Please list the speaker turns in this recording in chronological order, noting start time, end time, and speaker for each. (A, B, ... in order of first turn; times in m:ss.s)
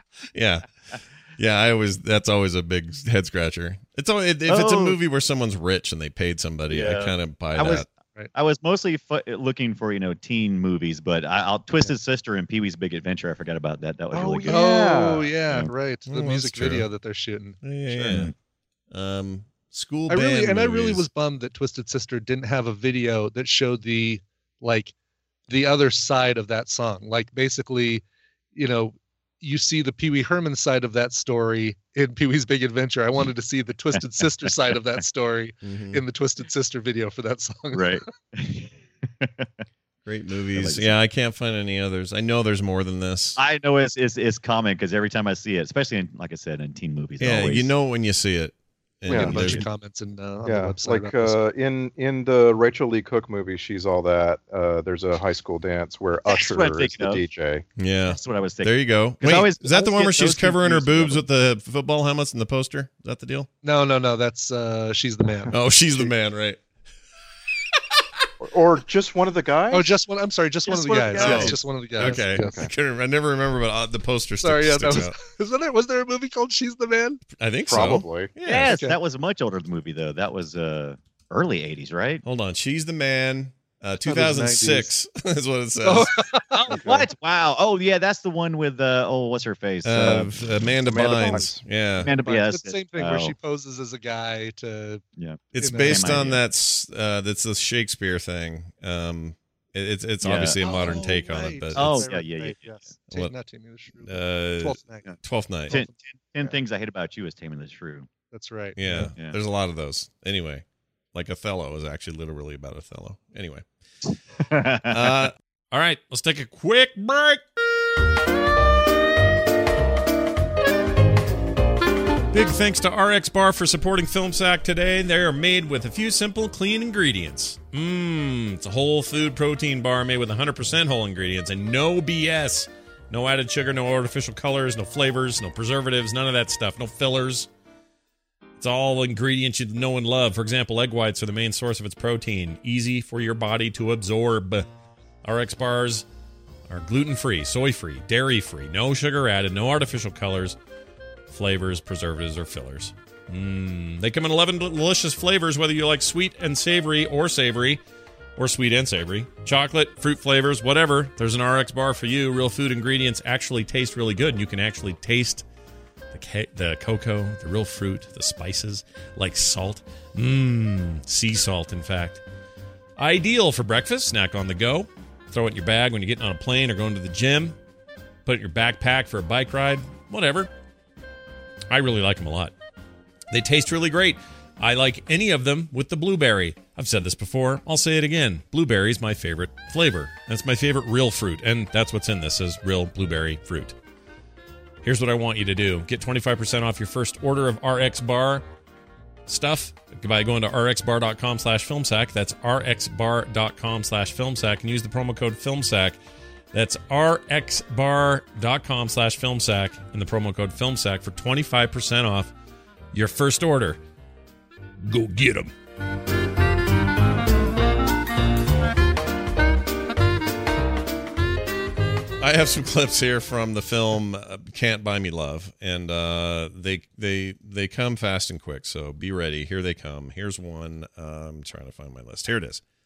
0:00.3-0:00.7 A
0:01.4-0:07.8 A
0:04.5-0:05.0 B
0:06.7-0:14.6 B
0:14.1-0:15.3 C
0:14.4-0:18.2 D
0:16.1-0:16.9 A
0:17.6-0:18.3 A
0:18.0-0:18.3 B
0:18.9-0:21.0 A
0:20.1-0:24.9 D
0:25.5-0:28.0 D
0:28.5-0:38.0 D
0:35.6-0:36.0 A
0:37.7-0:39.6 B
0:40.0-0:43.4 A
0:40.5-0:40.9 B
0:43.4-0:47.7 B
0:47.2-0:49.6 A
0:49.1-0:49.6 C
0:49.1-0:51.4 D
0:50.4-0:57.6 C
0:56.3-0:57.2 B
0:57.8-1:03.5 A
0:58.0-1:01.2 B
1:03.6-1:06.1 D
1:05.5-1:06.6 A
1:08.4-1:09.9 C
1:09.7-1:12.7 D
1:10.7-1:12.7 C
1:11.1-1:15.2 A
1:14.4-1:17.2 D
1:17.4-1:18.7 A
1:17.7-1:18.3 C
1:18.4-1:22.2 B
1:18.5-1:18.9 D
1:22.2-1:26.1 A
1:24.0-1:24.9 D
1:25.8-1:26.9 D
1:26.7-1:30.3 B
1:29.8-1:32.1 A
1:30.8-1:31.6 C
1:32.0-1:33.3 B
1:32.2-1:35.0 D
1:35.2-1:36.4 B
1:35.5-1:42.1 A
1:35.6-1:36.1 D
1:40.2-1:40.9 B
1:40.6-1:45.1 D
1:41.8-1:42.9 B
1:44.0-1:45.8 A
1:45.7-1:46.6 D
1:45.7-1:48.1 B
1:48.3-1:49.1 D
1:48.8-1:53.6 A
1:54.5-1:55.3 B
1:54.9-1:57.4 A
2:02.3-2:17.5 A
2:18.6-2:24.6 A
2:25.2-2:26.0 A
2:26.7-2:30.6 A
2:31.3-2:37.8 A
2:38.4-2:45.4 A
2:46.1-2:52.2 A
2:53.0-2:57.6 A
2:58.2-3:00.5 A
3:01.7-3:02.5 A
3:03.3-3:13.7 A
3:14.8-3:18.4 A
3:19.2-3:26.0 A
3:26.5-3:32.3 A
3:32.9-3:33.8 A
3:34.8-3:35.5 A
3:42.2-3:52.6 A